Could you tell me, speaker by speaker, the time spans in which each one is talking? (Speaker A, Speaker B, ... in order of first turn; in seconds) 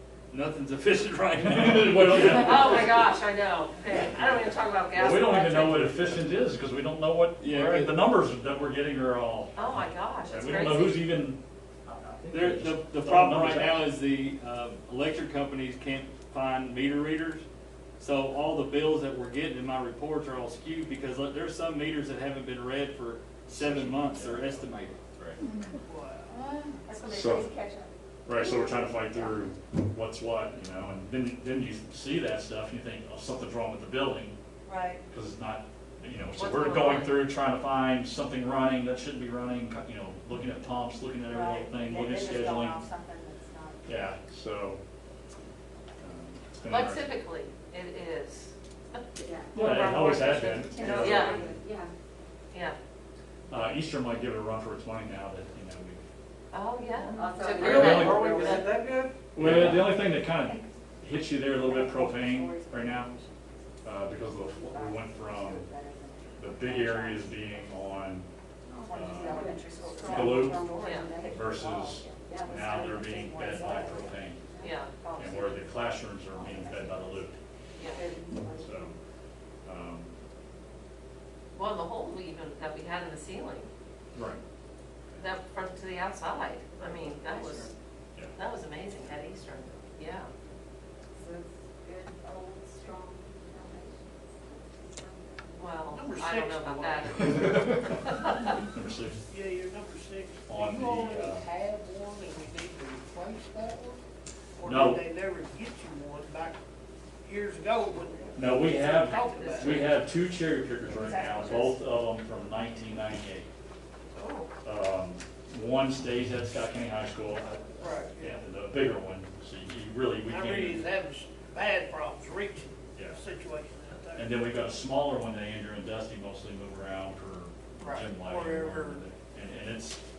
Speaker A: 0.3-3.0, 7.4-8.2, 12.3-17.4, 18.0-25.0, 59.4-59.7
Speaker B: 1.4-2.6, 4.9-13.9, 23.5-25.4, 27.1-27.5, 28.3-34.4, 35.1-42.8, 43.9-44.8, 46.0-47.1, 49.5-51.3, 53.5-56.0, 57.7-58.3, 59.3-63.1, 63.8-65.7, 66.4-68.3, 68.9-69.4, 70.1-70.7, 71.2-74.5, 75.2-77.3, 78.6-79.0, 79.7-80.1, 84.1-84.4, 97.1-98.0, 98.6-99.2, 100.5-101.5, 104.6-105.0, 108.3-113.5, 114.6-120.8, 123.0-123.2, 124.2-130.0
Speaker C: 2.2-6.0, 9.6-11.2, 36.4-37.3, 46.7-49.0, 49.5-50.1, 50.8-51.4, 56.5-58.7, 70.8-71.1, 74.6-74.9, 77.8-78.0, 81.5-83.7, 85.2-87.7, 88.4-90.3, 95.6-97.7, 108.7-110.0, 114.2-114.5
Speaker D: 25.9-26.4, 95.9-97.6, 99.3-104.0, 104.6-106.6, 107.2-109.9, 117.8-118.4, 120.3-124.4, 127.8-129.0
Speaker E: 26.5-29.3, 34.7-35.0, 41.2-44.1, 49.6-51.6, 59.7-60.7, 61.9-63.4, 64.4-67.3, 68.7-74.1, 110.9-111.8
Speaker F: 49.2-49.6, 50.8-51.9, 57.1-58.8, 61.7-62.5, 66.7-67.1, 68.7-71.4, 72.2-75.6, 76.3-77.2, 77.8-78.9, 91.2-95.8
Speaker G: 57.6-59.2, 86.7-87.7